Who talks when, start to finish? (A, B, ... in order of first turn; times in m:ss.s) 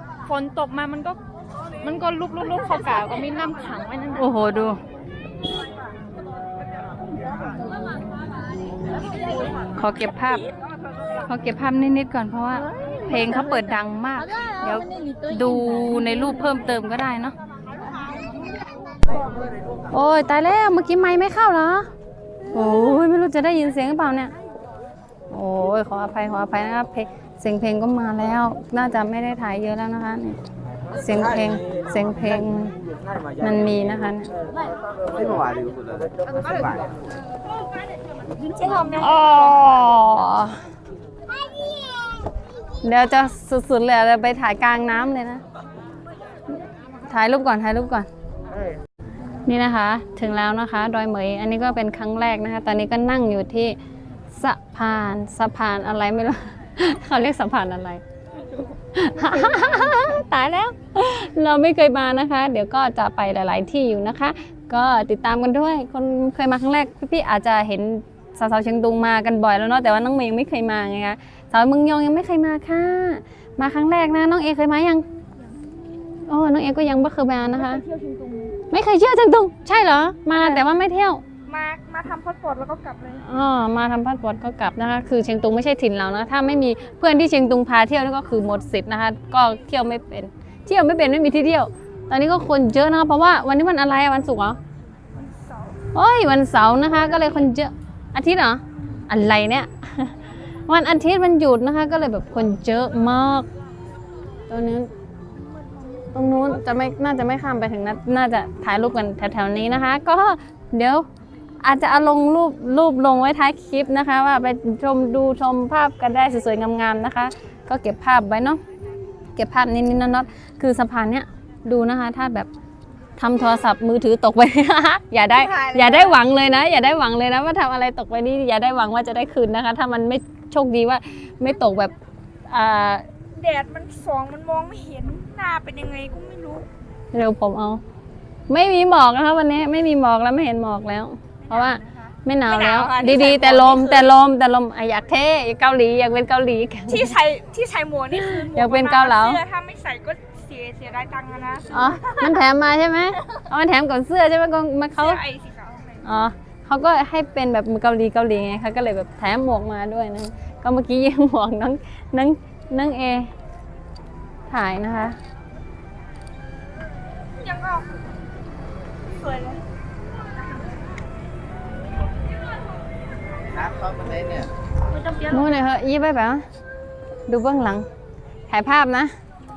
0:00.2-0:01.2 A
0:01.8-0:04.3 A
0:04.2-0:04.8 B
0:09.7-0:10.4 B
0:11.3-0:17.3 B
0:19.9-0:21.9 B
0:22.5-0:24.3 B
0:25.3-0:30.4 B
0:31.0-0:32.7 B
0:33.4-0:34.3 B
0:35.0-0:36.9 C
0:38.5-0:39.2 D
0:39.0-0:40.6 B
0:42.8-0:45.4 B
0:47.1-0:48.1 B
0:49.5-0:53.8 B
0:54.3-0:58.0 B
0:58.9-1:15.0 B
1:16.3-1:17.8 B
1:17.7-1:18.5 D
1:18.7-1:21.2 B
1:21.5-1:23.2 D
1:23.2-1:34.6 B
1:35.9-1:40.1 B
1:40.7-1:43.5 B
1:44.5-1:44.9 B
1:45.6-1:46.0 D
1:46.1-1:51.0 B
1:51.6-1:58.6 B
1:59.4-2:02.5 B
2:03.2-2:11.9 B
2:05.4-2:06.2 D
2:12.5-2:13.0 B
2:13.3-2:16.7 D
2:17.1-2:17.8 B
2:18.5-2:27.2 B
2:21.4-2:24.1 D
2:26.9-2:32.4 D
2:28.1-2:29.4 B
2:31.7-2:35.2 B
2:35.0-2:36.0 D
2:36.0-2:43.3 B
2:44.5-2:45.2 B
2:47.4-2:47.9 D
2:49.1-2:49.6 D
2:53.5-2:54.5 C
2:54.9-2:55.5 D
2:55.3-2:56.4 B
2:57.3-2:57.9 B
2:58.5-2:59.1 B